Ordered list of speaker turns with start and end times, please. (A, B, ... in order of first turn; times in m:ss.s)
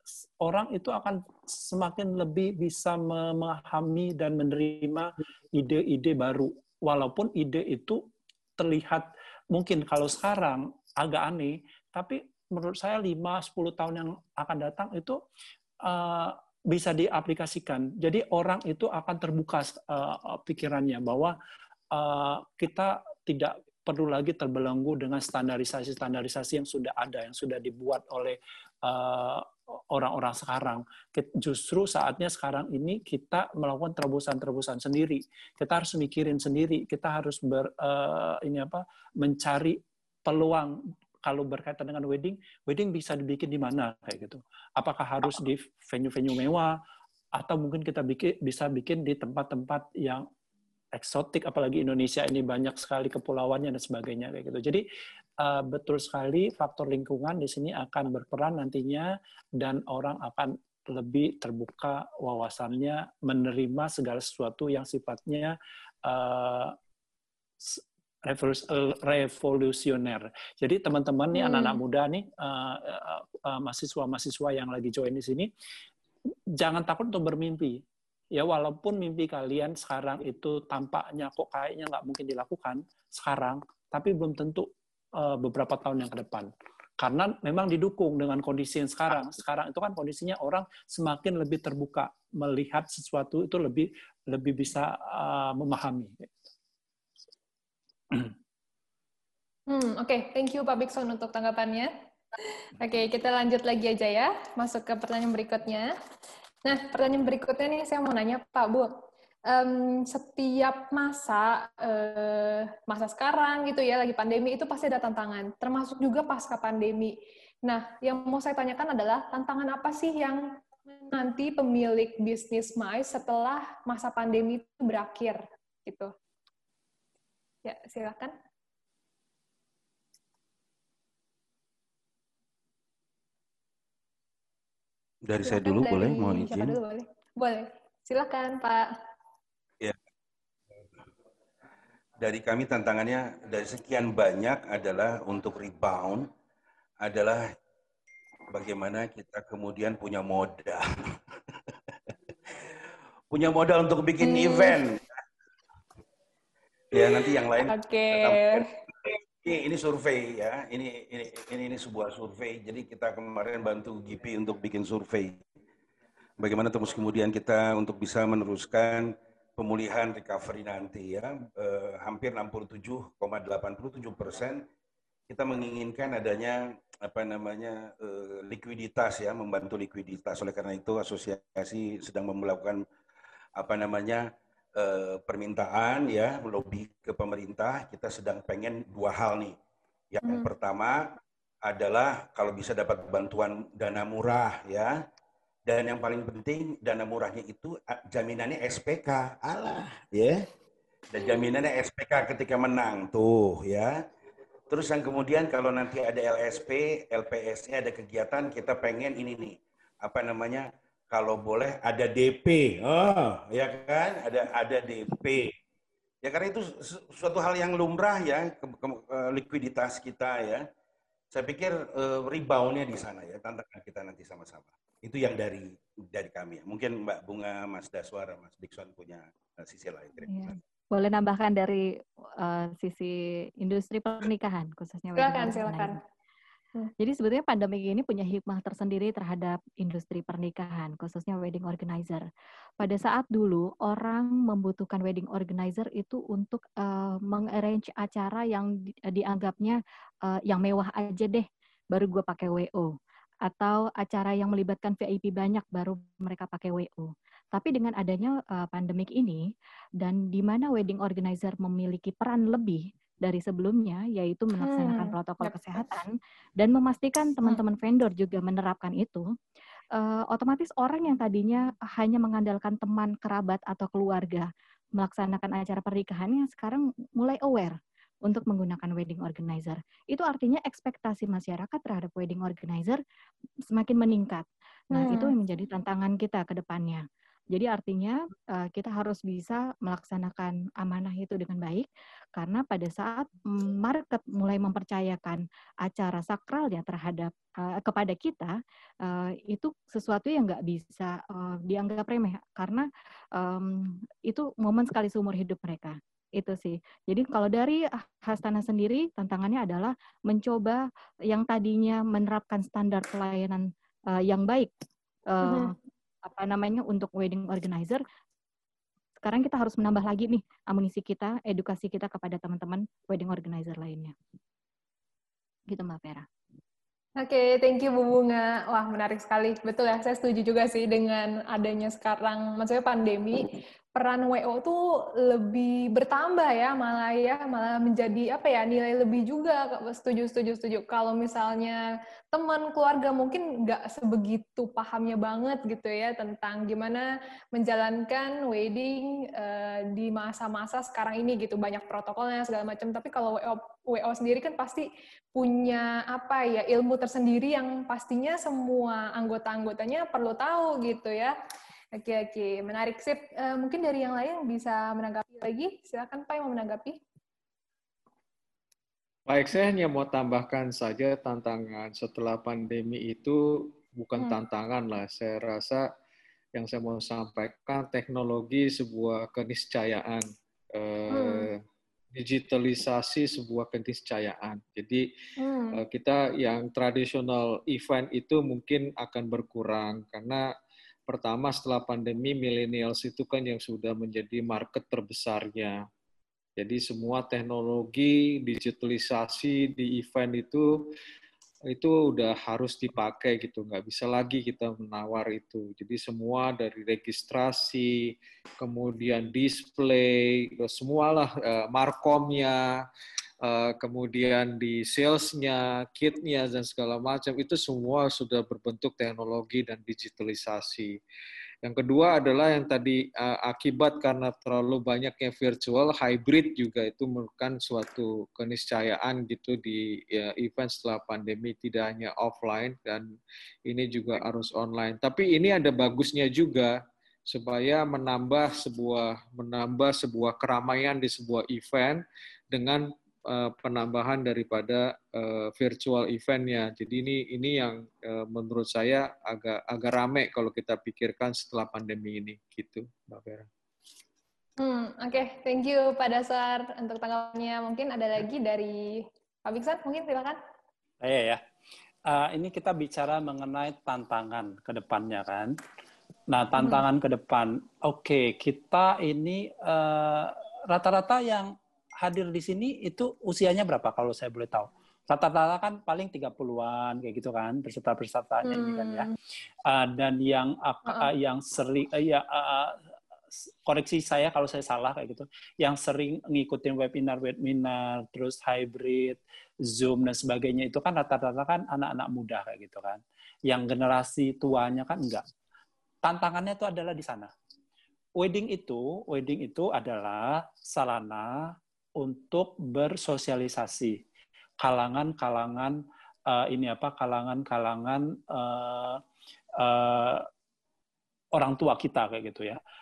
0:00.4-0:08.0 A
0:08.6-0:15.2 A
0:15.8-0:21.4 A
0:21.9-0:46.8 A
0:47.4-0:50.3 A
0:51.0-0:54.8 A
0:55.4-1:06.8 A
1:07.6-1:15.5 A
1:11.3-1:11.8 B
1:16.6-1:17.8 A
1:18.4-1:36.4 A
1:39.7-1:41.9 B
1:42.8-1:45.9 B
1:46.6-1:48.9 B
1:49.5-2:00.4 B
2:01.1-2:06.1 B
2:07.6-2:08.3 B
2:15.3-2:16.8 C
2:15.4-2:18.9 B
2:22.2-2:26.3 C
2:27.0-2:27.5 C
2:28.5-2:31.2 C
2:33.3-2:35.0 C
2:34.2-2:34.8 B
2:36.9-2:38.7 C
2:36.9-2:38.7 B
2:39.4-2:45.4 C
2:46.4-2:54.7 C
2:55.3-3:02.8 C
3:03.6-3:09.6 C
3:10.1-3:15.0 C
3:10.2-3:10.5 B
3:15.7-3:20.4 C
3:21.1-3:24.0 C
3:24.7-3:35.6 C
3:36.2-3:40.7 C
3:41.3-3:50.5 C
3:50.3-3:56.0 D
3:55.2-3:56.0 B
3:57.0-4:02.2 D
4:02.8-4:12.9 D
4:13.5-4:19.4 D
4:20.0-4:29.3 D
4:24.6-4:25.7 B
4:29.9-4:43.0 D
4:43.7-5:14.7 D
4:44.9-4:45.4 B
5:15.3-5:18.0 D
5:15.5-5:15.7 B
5:19.2-5:24.1 D
5:25.7-5:26.3 D
5:27.2-5:41.8 B
5:42.3-6:01.4 B
6:01.9-6:07.0 B
6:09.3-6:15.9 E
6:16.6-6:21.6 E
6:21.1-6:21.5 B
6:22.1-6:25.1 E
6:25.4-6:25.8 B
6:25.8-6:30.5 E
6:31.1-6:35.8 E
6:36.6-6:40.9 E
6:41.7-6:52.9 E
6:53.4-7:01.0 E
7:01.6-7:13.1 E
7:13.7-7:33.5 E
7:34.6-7:40.4 B
7:41.0-7:41.4 A
7:42.1-7:45.5 A
7:46.3-7:59.1 A
7:46.6-7:46.8 B
7:58.4-7:59.1 B
7:59.7-8:02.8 A
8:03.7-8:15.2 A
8:16.0-8:17.3 A
8:18.2-8:24.0 A
8:24.6-8:29.0 A
8:29.6-8:30.3 A
8:31.4-8:32.6 A